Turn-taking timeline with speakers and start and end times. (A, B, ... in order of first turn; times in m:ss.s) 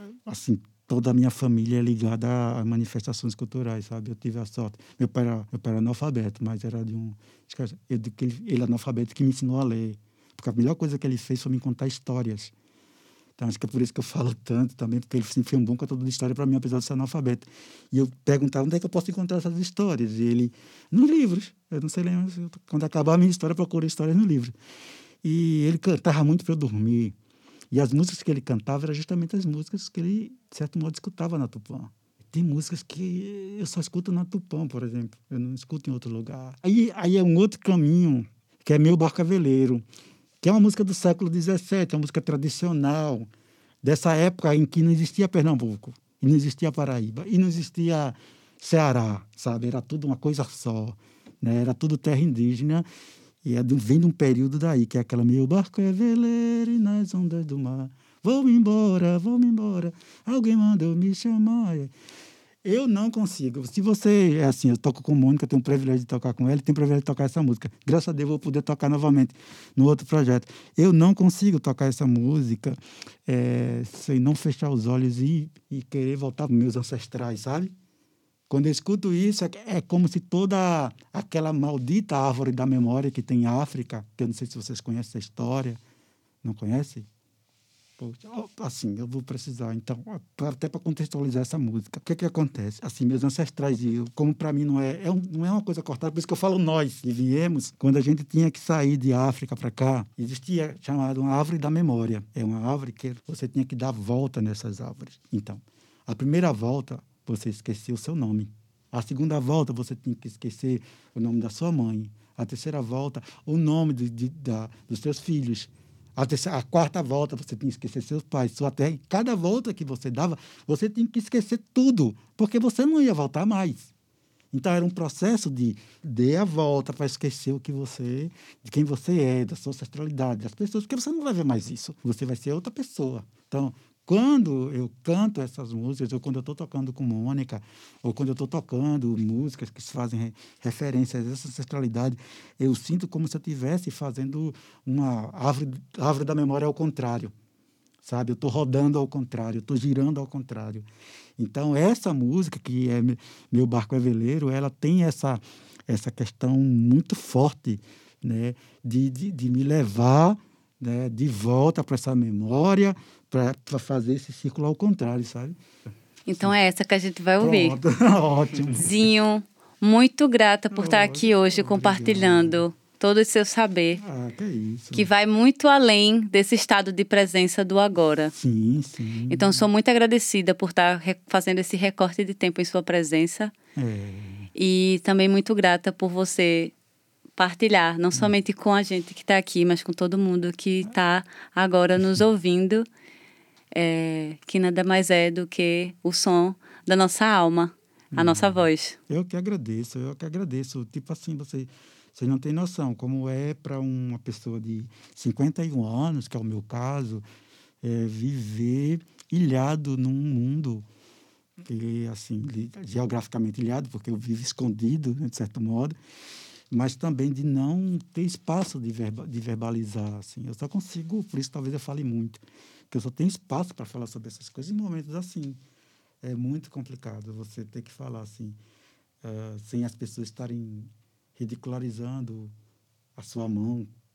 0:00.2-0:12.5 A
0:13.4-0:24.5 A
0:25.2-0:27.2 A
0:27.7-0:39.8 A
0:40.4-0:43.3 A
0:43.8-0:52.8 A
0:53.4-1:01.9 A
1:02.6-1:17.7 A
1:18.5-1:25.8 A
1:26.4-1:27.1 A
1:28.0-2:03.9 A
2:04.5-2:27.3 A
2:28.0-2:30.9 A
2:31.4-2:45.6 A
2:46.2-2:47.8 B
2:47.4-2:49.0 A
2:48.7-2:54.0 B
2:50.7-2:52.6 A
2:54.0-2:55.1 A
2:54.9-2:58.3 B
2:58.3-2:59.6 A
2:59.3-3:03.5 B
3:03.8-3:04.5 A
3:04.5-3:06.7 B
3:07.4-3:12.9 B
3:13.7-3:19.0 B
3:18.1-3:27.2 A
3:27.8-3:30.8 A
3:31.6-3:36.0 A
3:36.7-3:45.6 A
3:46.2-3:48.6 A
3:49.2-3:52.5 A
3:53.2-3:53.9 A